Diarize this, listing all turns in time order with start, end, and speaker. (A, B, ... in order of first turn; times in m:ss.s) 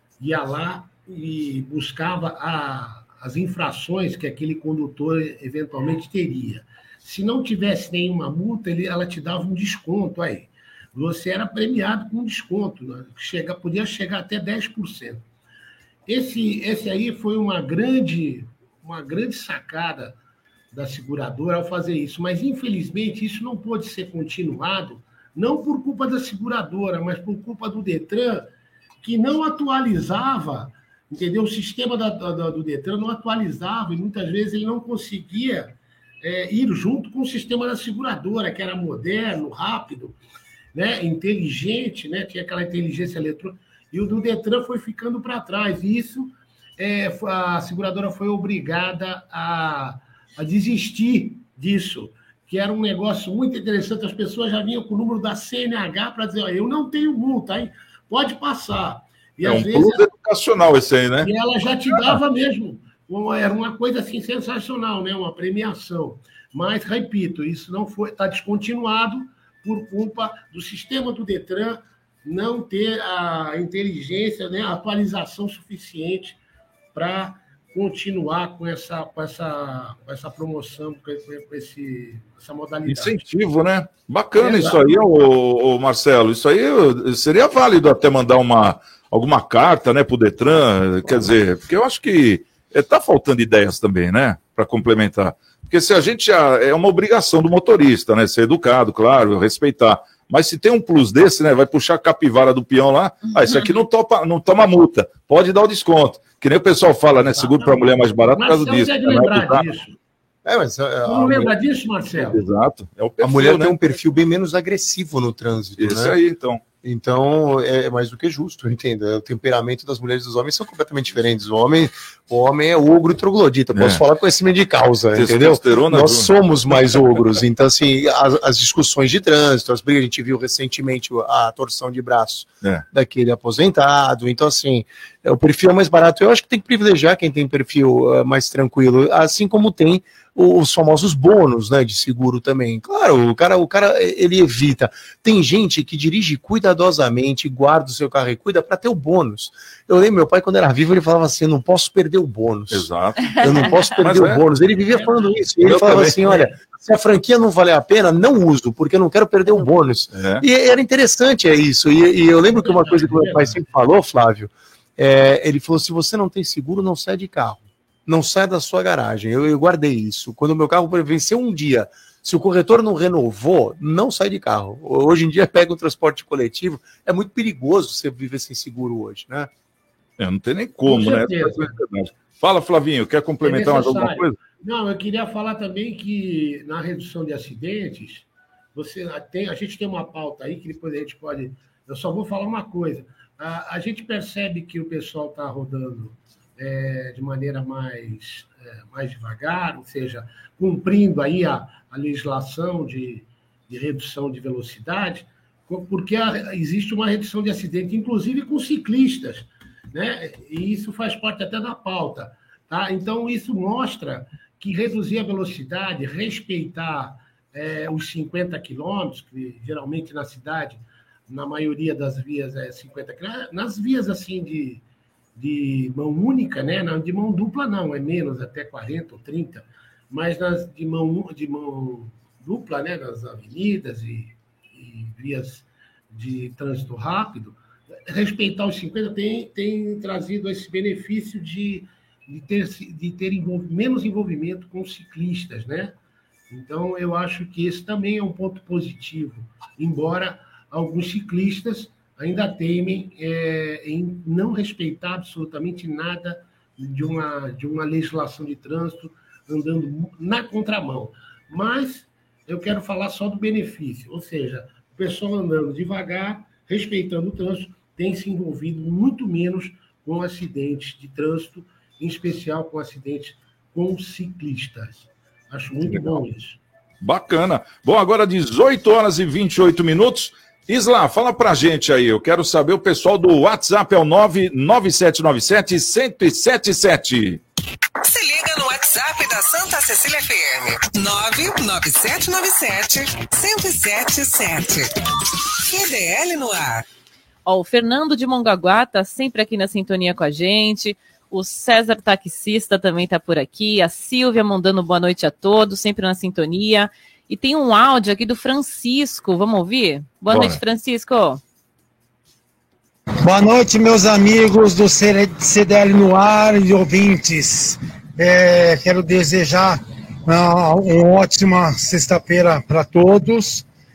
0:00.2-0:15.2 A
0:16.0-0:20.2 A
0:20.7-0:40.2 A
0:40.7-1:00.0 A
0:59.4-1:01.3 B
1:01.2-1:16.4 A
1:01.9-1:02.2 B
1:16.9-1:23.2 A
1:22.8-1:49.7 B
1:24.4-1:25.0 A
1:47.2-1:50.0 A
1:50.4-1:51.5 C
1:51.0-1:52.4 A
1:52.1-1:53.8 B
1:53.2-1:56.2 C
1:55.8-1:56.6 B
1:56.8-2:59.5 C
2:03.7-2:04.0 B
2:05.1-2:06.3 B
2:32.7-2:34.4 B
2:34.9-2:35.4 A
2:35.6-2:36.2 B
2:40.1-2:40.4 B
2:42.6-2:43.6 A
3:00.2-3:04.4 B
3:00.9-3:01.7 A
3:03.4-3:44.8 A
3:45.3-4:06.0 A
4:06.5-4:36.6 A
4:35.8-4:36.2 B
4:37.0-4:47.4 B
4:48.0-4:54.9 D
4:55.6-4:56.8 D
4:57.4-5:11.4 E
5:10.3-5:10.6 B
5:13.2-5:23.6 F